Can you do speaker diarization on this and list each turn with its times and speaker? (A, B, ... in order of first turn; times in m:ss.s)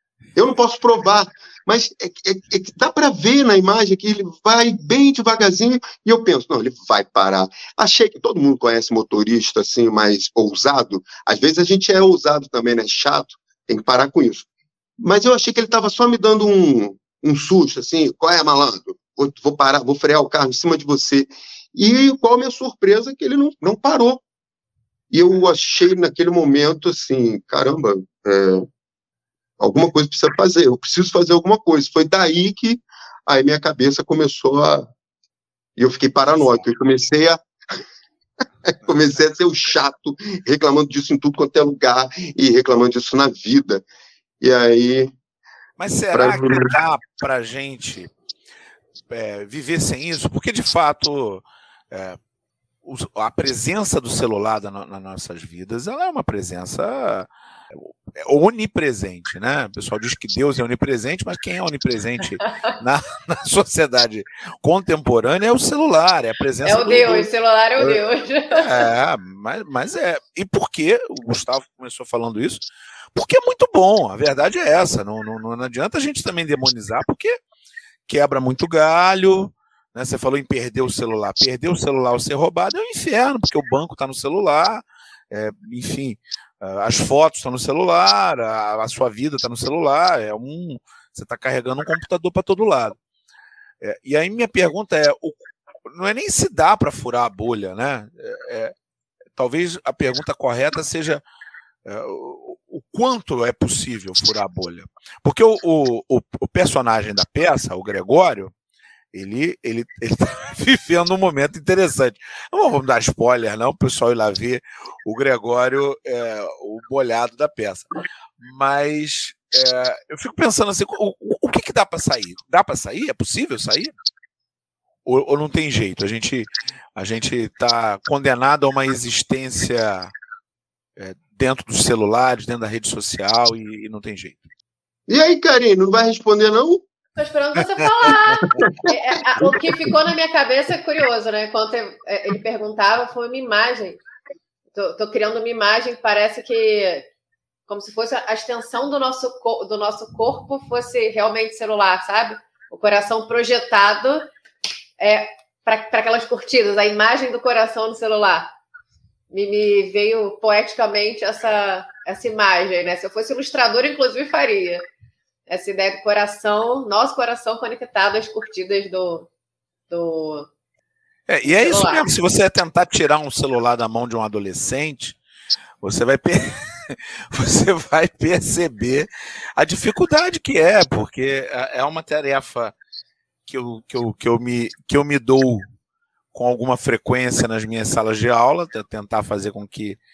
0:00.3-0:14.4 A
0:15.0-0:24.2 A
0:25.1-0:28.6 A
0:29.6-0:34.9 A
0:35.8-0:37.4 A
0:38.7-0:43.8 A
0:44.4-0:45.1 A
0:45.8-0:48.1 B
0:46.1-0:46.7 A
0:49.1-0:52.2 B
0:52.8-1:07.3 B
1:06.6-1:08.8 C
1:08.5-1:17.4 B
1:18.1-1:33.0 B
1:33.8-1:38.7 B
1:39.4-1:41.2 B
1:41.8-1:48.5 B
1:49.1-2:03.9 B
2:05.0-2:10.1 B
2:11.0-2:14.4 B
2:15.1-2:16.8 A
2:17.2-2:24.0 C
2:17.8-2:18.6 B
2:19.4-2:19.9 A
2:24.7-2:27.0 C
2:27.7-2:34.3 C
2:35.0-2:38.5 C
2:39.3-2:44.8 C
2:45.5-2:49.3 C
2:49.9-2:50.5 C
2:51.3-2:55.2 B
2:51.5-2:52.1 C
2:55.8-3:02.7 B
3:03.5-3:05.6 B
3:06.3-3:10.0 B